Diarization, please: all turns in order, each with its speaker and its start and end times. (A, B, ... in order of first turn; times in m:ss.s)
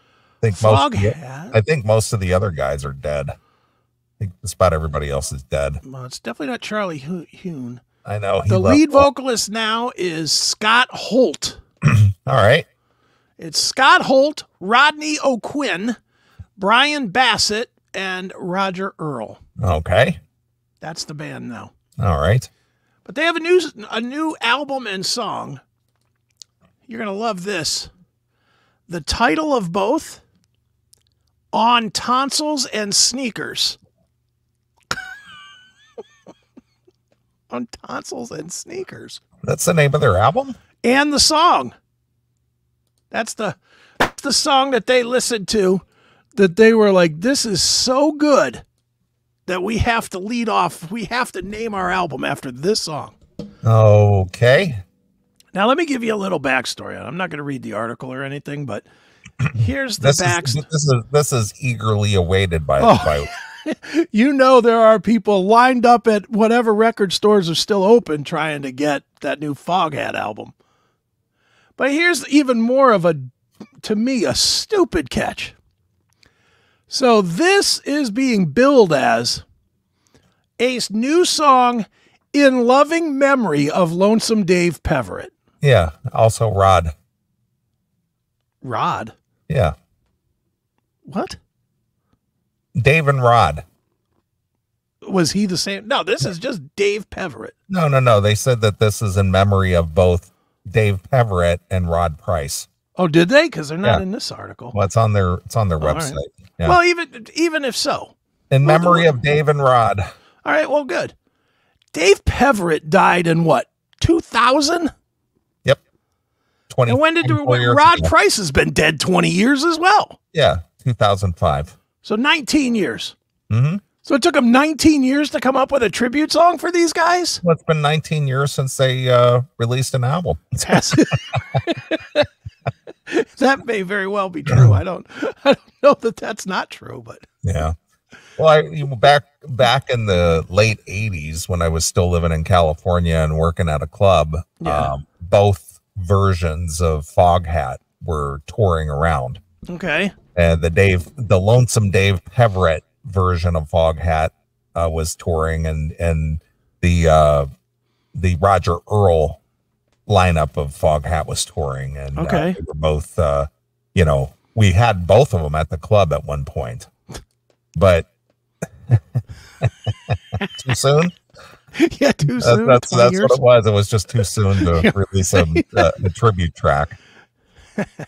0:00.4-0:03.4 A
0:00.5-0:01.6 B
0:04.2-0:05.8 A
0:05.8-0:07.8 B
0:08.0-0:09.1 A
0:08.5-0:11.6 B
0:11.8-0:12.6 A
0:13.4-0:16.0 B
0:16.6-0:19.4 B
0:19.6-0:20.2 A
0:20.8-0:21.7 B
0:22.0-0:22.5 A
0:23.0-0:25.6 B
0:26.8-0:27.9 B
0:28.9-0:30.2 B
0:31.5-0:33.8 B
0:37.5-0:39.2 B
0:39.4-0:40.6 A
0:40.8-0:41.7 B
0:43.1-0:45.8 B
0:46.3-0:48.6 B
0:49.5-0:53.2 B
0:53.6-0:54.8 A
0:55.5-0:58.8 B
0:59.5-1:00.6 B
1:00.0-1:03.3 A
1:02.8-1:10.5 B
1:11.8-1:13.3 B
1:13.8-1:15.6 B
1:16.9-1:19.4 B
1:20.6-1:25.3 B
1:25.6-1:26.9 A
1:28.6-1:29.1 B
1:29.5-1:29.7 A
1:31.1-1:31.4 B
1:32.8-1:33.6 A
1:35.0-1:37.5 B
1:37.7-1:42.7 A
1:43.0-1:44.7 B
1:44.7-1:46.8 A
1:45.8-1:49.2 B
1:48.5-1:50.0 A
1:50.4-1:51.1 B
1:51.9-1:54.9 B
1:56.7-1:58.1 A
1:56.9-2:00.2 B
2:00.3-2:01.7 A
2:02.0-2:03.1 B
2:03.5-2:03.8 A
2:04.0-2:07.4 B
2:07.4-2:11.4 A
2:10.6-2:12.3 B
2:13.1-2:17.2 B
2:14.5-2:14.8 A
2:17.4-2:17.7 A
2:18.4-2:29.4 A
2:24.6-2:24.9 B
2:29.7-2:30.1 B
2:30.4-2:37.5 A
2:38.1-2:39.4 A
2:40.1-2:46.9 A
2:42.1-2:42.6 B
2:47.7-2:48.1 A
2:48.9-2:51.1 A
2:51.8-2:53.4 B
2:52.4-2:57.0 A
2:54.6-2:55.9 B